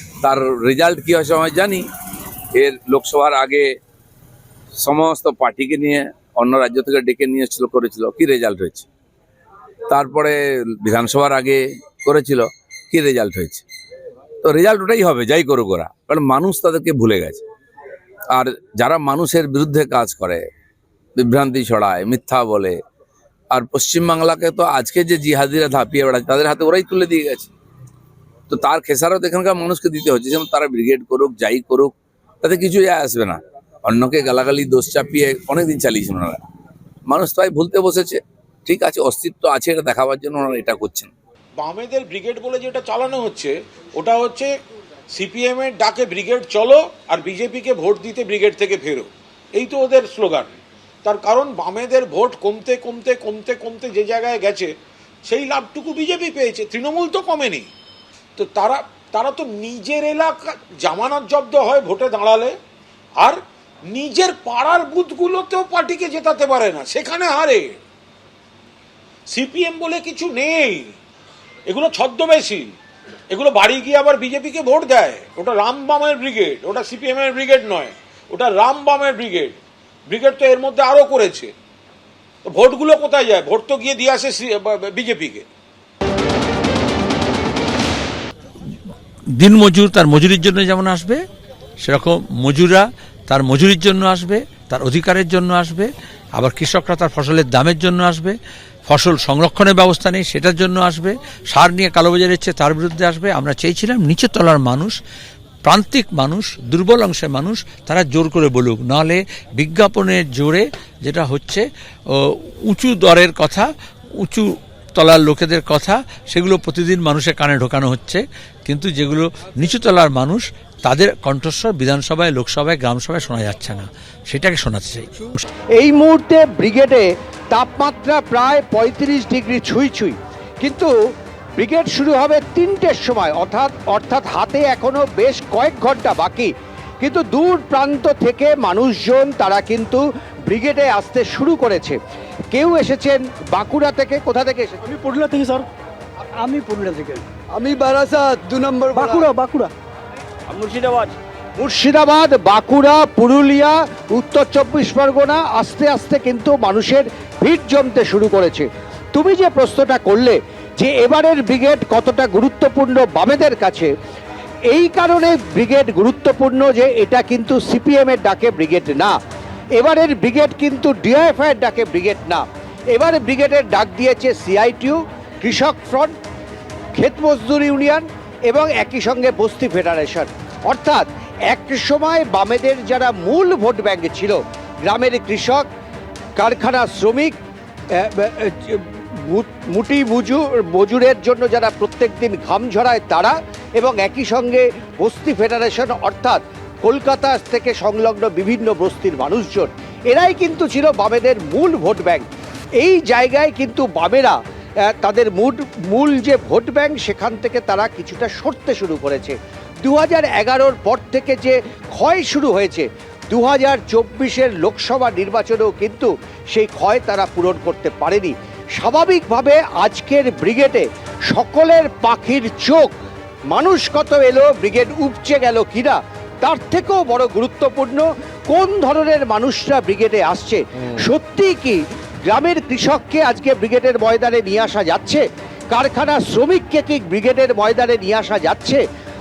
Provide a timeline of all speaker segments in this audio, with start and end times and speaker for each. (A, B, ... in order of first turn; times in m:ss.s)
0:00.2-0:01.8 A
0:02.5-0:03.7 A
0:04.8-0:08.9 A
0:09.9-0:13.6 A
0:14.4-0:17.4 A
0:18.3-0:20.4 A
0:21.2-0:22.8 A
0:23.5-0:27.5 A
0:28.5-0:36.4 A
0:37.1-0:41.1 A
0:41.6-0:44.5 B
0:45.1-0:54.7 B
0:55.3-0:57.7 B
0:58.4-1:02.5 B
1:03.2-1:07.8 B
1:09.3-1:10.9 B
1:11.7-1:12.7 B
1:13.3-1:19.6 B
1:20.1-1:21.5 B
1:22.5-1:25.4 B
1:29.3-1:31.2 C
1:31.8-1:45.0 C
1:45.6-1:53.7 C
1:54.2-2:05.4 C
2:05.8-2:10.9 D
2:11.6-2:22.0 D
2:22.5-2:24.8 D
2:24.9-2:25.3 B
2:25.0-2:25.6 E
2:26.4-2:27.2 E
2:27.6-2:29.3 D
2:27.6-2:29.6 B
2:29.0-2:29.7 E
2:30.5-2:31.1 B
2:31.6-2:43.9 D
2:44.7-2:49.1 D
2:49.8-2:56.1 D
2:57.0-3:05.6 D
3:06.4-3:07.3 D
3:08.0-3:22.2 D
3:22.8-3:24.4 D
3:24.9-3:42.9 D
3:43.5-3:58.8 D